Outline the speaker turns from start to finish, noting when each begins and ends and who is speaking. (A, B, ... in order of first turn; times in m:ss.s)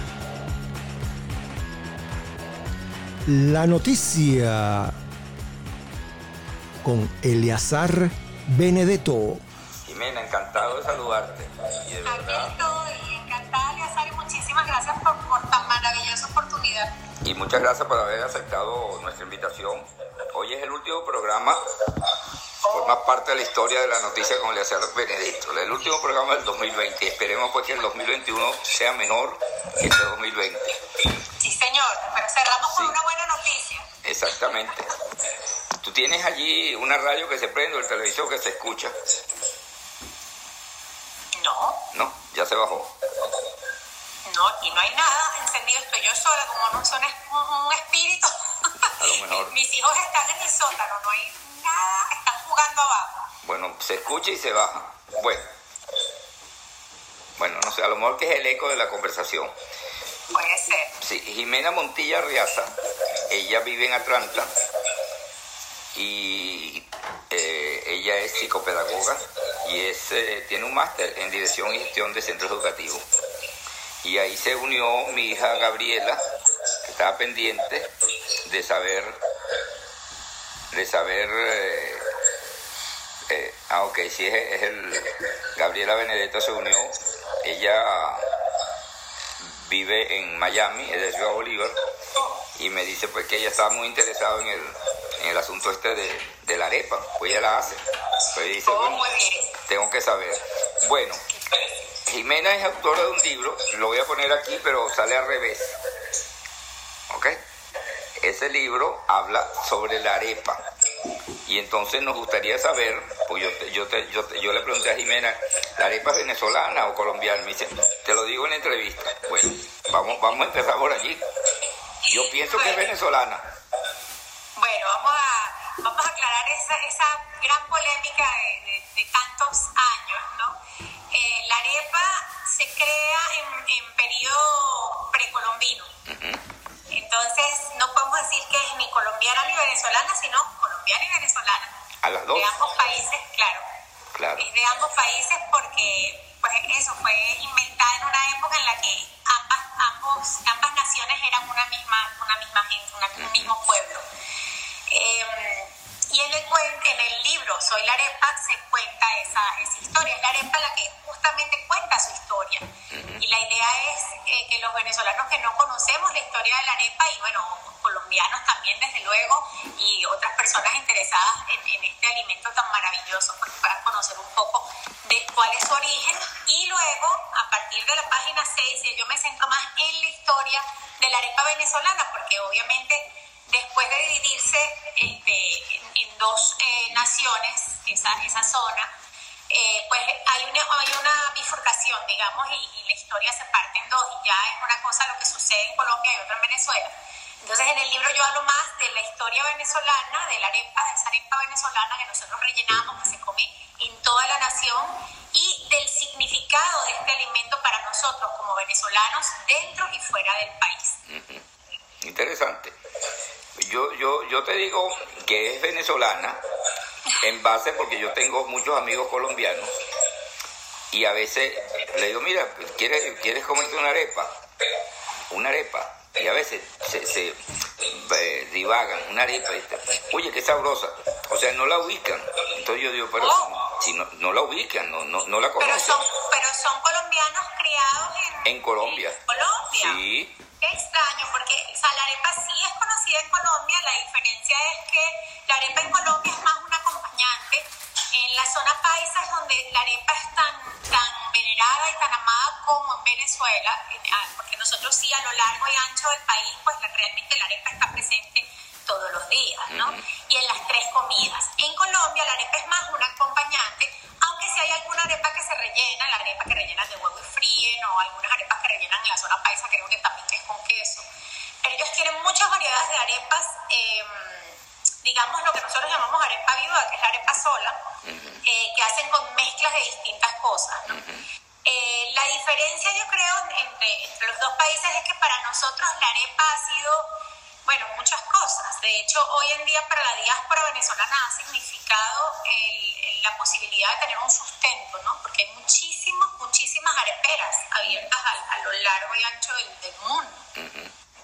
0:03.2-0:05.0 A
0:06.8-0:09.4 A
0:09.8-0:12.6 B
0:12.0-0:16.9 C
0:17.2-0:21.6 B
0:22.6-0:23.0 C
0:22.7-0:30.7 B
0:31.4-0:33.9 C
0:34.0-0:34.9 B
0:35.8-0:38.9 B
0:41.3-0:41.8 C
0:41.9-0:42.9 B
0:44.2-0:53.3 C
0:49.0-0:49.5 B
0:53.4-0:55.5 B
0:57.4-0:59.5 B
1:00.3-1:00.9 C
1:01.0-1:02.8 B
1:03.3-1:04.5 B
1:05.9-1:13.0 B
1:14.0-1:16.2 B
1:16.8-1:17.9 B
1:18.4-1:19.2 B
1:20.7-1:22.1 B
1:23.3-1:28.2 B
1:29.4-1:31.8 B
1:32.5-1:37.8 B
1:38.3-1:39.1 B
1:38.6-1:39.5 C
1:39.7-1:41.2 B
1:42.1-1:45.8 B
1:47.1-1:47.4 B
1:48.2-1:50.6 B
1:51.4-2:01.2 B
2:02.0-2:02.9 C
2:02.1-2:03.4 B
2:04.6-2:10.6 C
2:11.1-2:15.9 C
2:16.1-2:16.4 B
2:16.9-2:21.7 C
2:22.0-2:22.6 B
2:22.3-2:23.6 C
2:24.1-2:24.5 B
2:24.4-2:34.0 C
2:33.2-2:33.5 B
2:34.9-3:08.9 C
2:42.9-2:43.2 B
3:09.5-3:16.9 C
3:17.4-3:31.0 C
3:31.1-3:31.4 B
3:32.0-3:32.7 B
3:33.6-3:36.4 B
3:37.2-3:39.7 B
3:40.9-3:44.3 B
3:45.3-3:56.0 B
3:53.2-3:53.5 C
3:55.6-4:00.0 C
3:58.4-3:59.2 B
3:59.8-4:00.4 B
4:00.6-4:31.0 C
4:19.7-4:20.0 B
4:31.6-4:37.8 C
4:38.0-4:38.4 B
4:38.4-4:41.0 C
4:40.9-4:41.2 B
4:41.6-4:47.1 C
4:47.6-5:00.5 C
5:00.6-5:00.9 B